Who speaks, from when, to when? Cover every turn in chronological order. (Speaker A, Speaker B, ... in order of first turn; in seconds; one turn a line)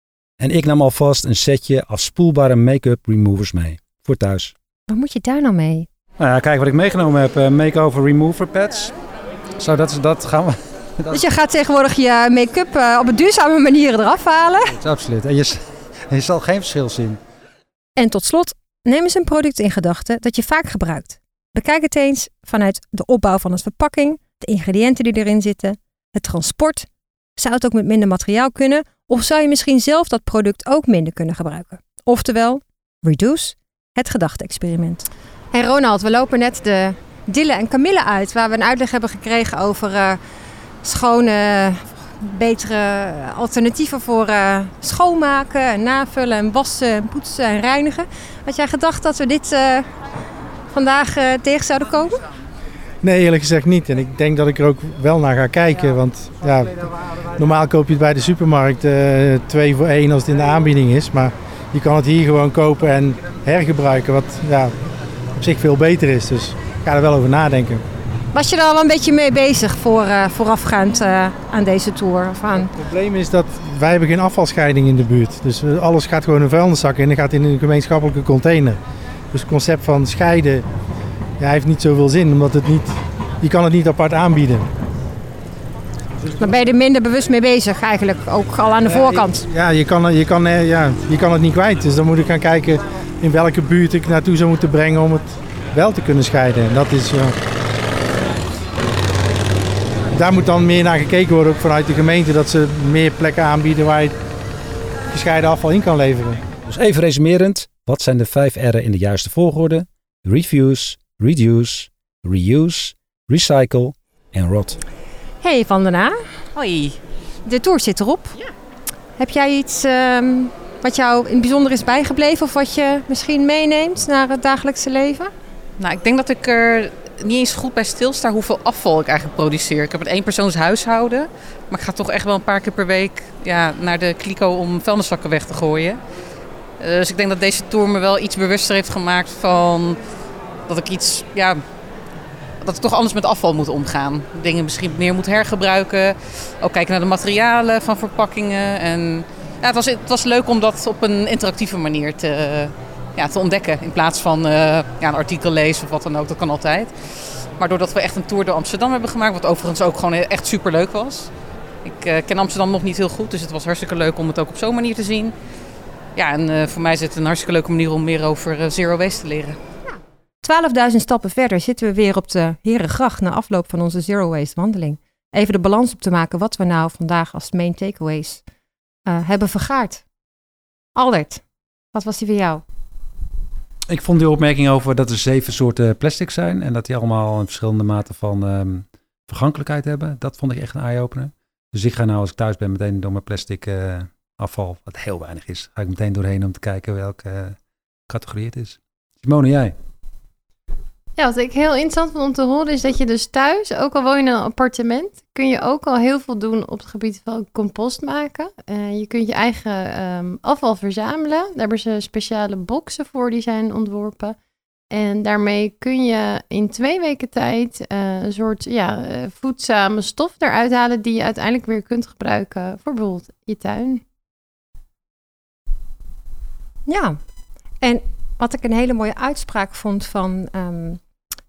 Speaker A: 0.4-4.5
Speaker B: 4.9-5.9
Speaker A: 6.2-8.9
Speaker A: 9.6-11.2
Speaker B: 11.1-14.8
Speaker A: 14.7-17.2
Speaker B: 18.0-40.2
Speaker B: 40.8-49.9
Speaker B: 50.7-52.2
Speaker C: 53.0-64.7
Speaker C: 65.4-67.8
Speaker B: 68.3-72.7
Speaker C: 72.5-78.8
Speaker C: 79.3-80.7
Speaker C: 81.4-84.7
Speaker B: 86.4-89.5
Speaker C: 88.8-97.4
Speaker C: 100.1-104.2
Speaker C: 105.1-106.4
Speaker A: 106.7-114.8
Speaker B: 115.4-116.2
Speaker D: 116.5-117.0
Speaker B: 117.5-118.4
Speaker B: 119.2-125.3
Speaker D: 125.8-136.0
Speaker D: 136.8-140.0
Speaker D: 140.7-141.6
Speaker D: 142.6-157.0
Speaker D: 157.6-161.3
Speaker D: 161.8-165.3
Speaker D: 166.2-169.6
Speaker B: 169.9-178.4
Speaker B: 179.1-180.1
Speaker B: 180.9-182.6
Speaker A: 183.9-199.7
Speaker E: 201.2-214.4
Speaker E: 214.9-224.0
Speaker B: 226.9-227.2
Speaker B: 227.8-231.0